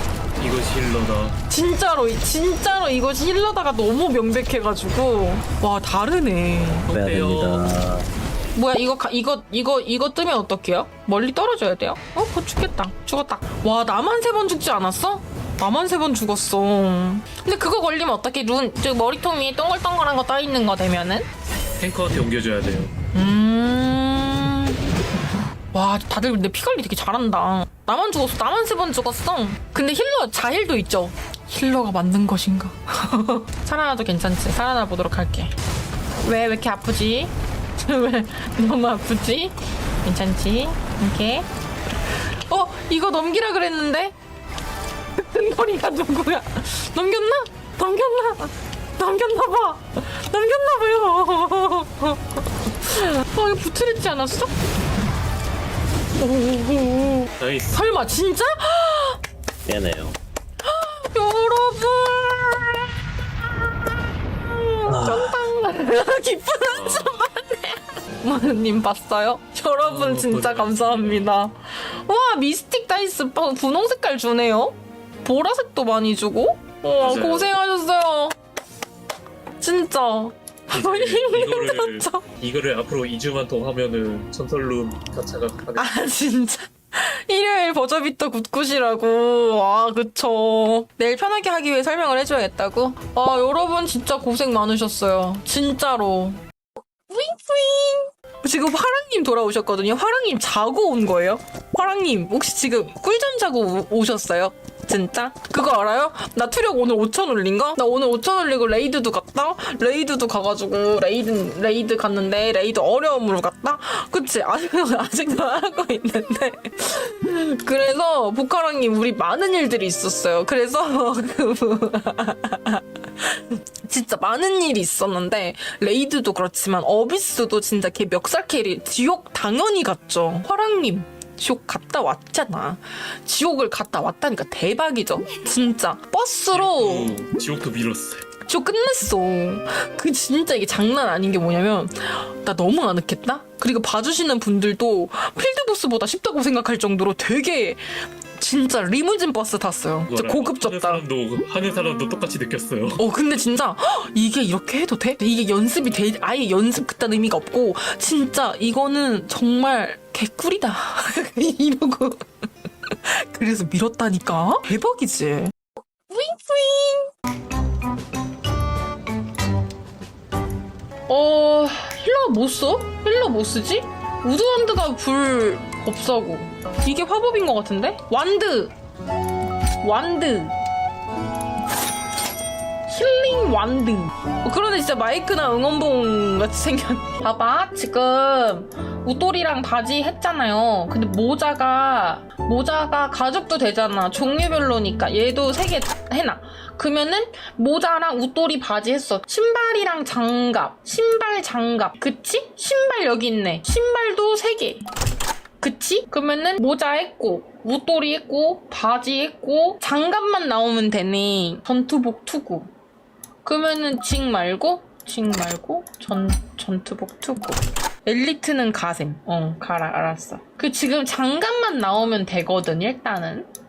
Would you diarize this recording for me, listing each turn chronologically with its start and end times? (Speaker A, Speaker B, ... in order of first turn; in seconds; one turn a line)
Speaker A: 0.4-1.4
Speaker B: 1.5-6.9
Speaker A: 6.9-7.7
Speaker C: 6.9-8.1
Speaker B: 8.5-21.3
Speaker A: 21.8-22.9
Speaker B: 23.1-24.8
Speaker B: 25.7-35.5
Speaker B: 36.2-41.5
Speaker B: 42.3-44.1
Speaker B: 45.1-54.5
Speaker B: 56.2-59.2
Speaker A: 57.4-57.8
Speaker C: 59.6-60.2
Speaker B: 60.6-63.0
Speaker B: 64.3-78.3
Speaker C: 64.9-65.4
Speaker A: 66.7-67.2
Speaker A: 69.8-71.3
Speaker A: 77.0-77.5
Speaker B: 79.6-82.2
Speaker A: 80.7-86.0
Speaker B: 85.8-96.4
Speaker B: 97.1-137.2
Speaker A: 136.5-138.2
Speaker B: 138.4-151.0
Speaker A: 150.1-153.0
Speaker B: 153.0-162.2
Speaker B: 162.8-165.5
Speaker B: 166.1-167.1
Speaker B: 171.1-178.7
Speaker B: 179.8-180.6
Speaker B: 182.9-204.8
Speaker B: 205.6-212.7
Speaker B: 213.4-223.5